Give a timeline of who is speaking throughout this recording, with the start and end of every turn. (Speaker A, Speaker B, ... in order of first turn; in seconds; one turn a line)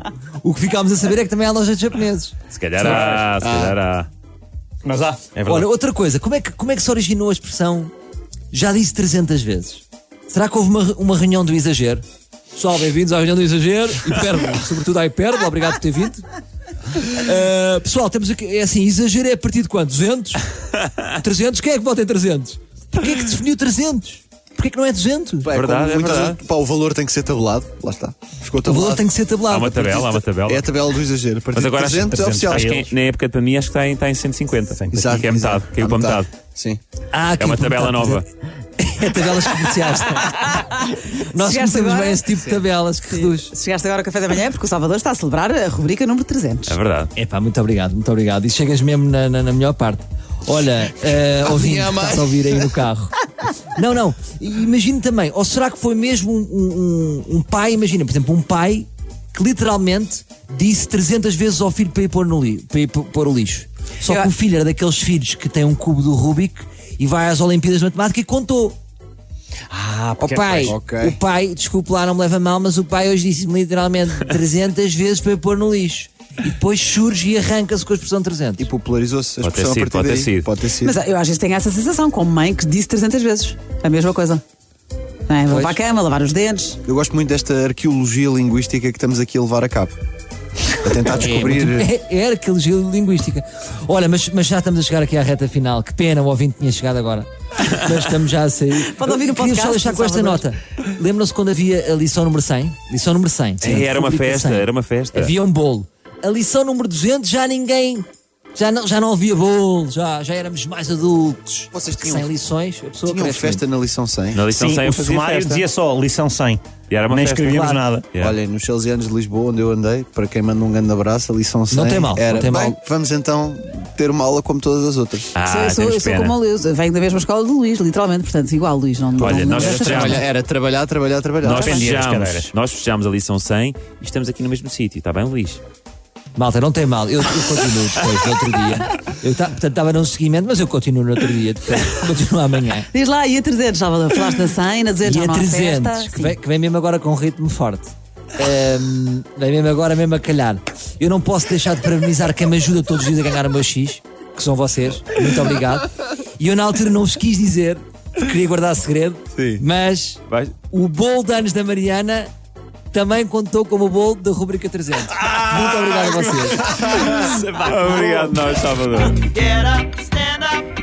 Speaker A: 0.4-2.4
Speaker B: 2.5-4.1
Speaker C: 2.8-3.3
Speaker D: 2.8-3.8
Speaker C: 4.8-5.3
Speaker B: 5.3-5.7
Speaker A: 5.5-7.9
Speaker A: 8.5-12.0
Speaker A: 12.6-16.2
Speaker A: 16.9-20.5
Speaker A: 21.0-25.5
Speaker D: 25.4-29.0
Speaker B: 25.5-26.4
Speaker A: 28.6-30.2
Speaker B: 29.5-30.7
Speaker D: 30.4-32.7
Speaker B: 31.5-36.3
Speaker C: 32.1-32.9
Speaker C: 34.7-35.3
Speaker D: 34.9-36.8
Speaker A: 37.1-38.2
Speaker B: 37.4-38.3
Speaker A: 38.8-43.5
Speaker E: 41.3-42.2
Speaker E: 43.1-46.8
Speaker B: 46.7-47.1
Speaker A: 47.1-68.8
Speaker D: 51.4-52.4
Speaker E: 64.0-64.3
Speaker C: 69.7-70.7
Speaker A: 70.2-78.7
Speaker D: 70.6-71.2
Speaker D: 78.6-80.9
Speaker B: 79.4-80.5
Speaker E: 80.8-84.4
Speaker E: 85.3-86.8
Speaker A: 85.5-85.8
Speaker D: 86.8-90.0
Speaker D: 90.7-91.9
Speaker A: 91.1-113.6
Speaker E: 98.8-100.5
Speaker B: 103.6-105.3
Speaker D: 111.7-112.3
Speaker D: 113.0-114.5
Speaker B: 114.3-115.7
Speaker C: 114.5-118.1
Speaker B: 116.9-118.4
Speaker D: 118.2-125.3
Speaker A: 121.7-122.8
Speaker B: 125.3-126.3
Speaker E: 125.4-130.2
Speaker B: 129.2-130.2
Speaker D: 129.2-131.7
Speaker B: 131.4-135.6
Speaker C: 131.5-132.5
Speaker A: 136.3-142.9
Speaker E: 142.9-146.3
Speaker A: 145.0-162.3
Speaker D: 159.3-159.6
Speaker B: 160.3-160.5
Speaker A: 162.9-166.8
Speaker B: 165.1-169.3
Speaker E: 169.8-170.2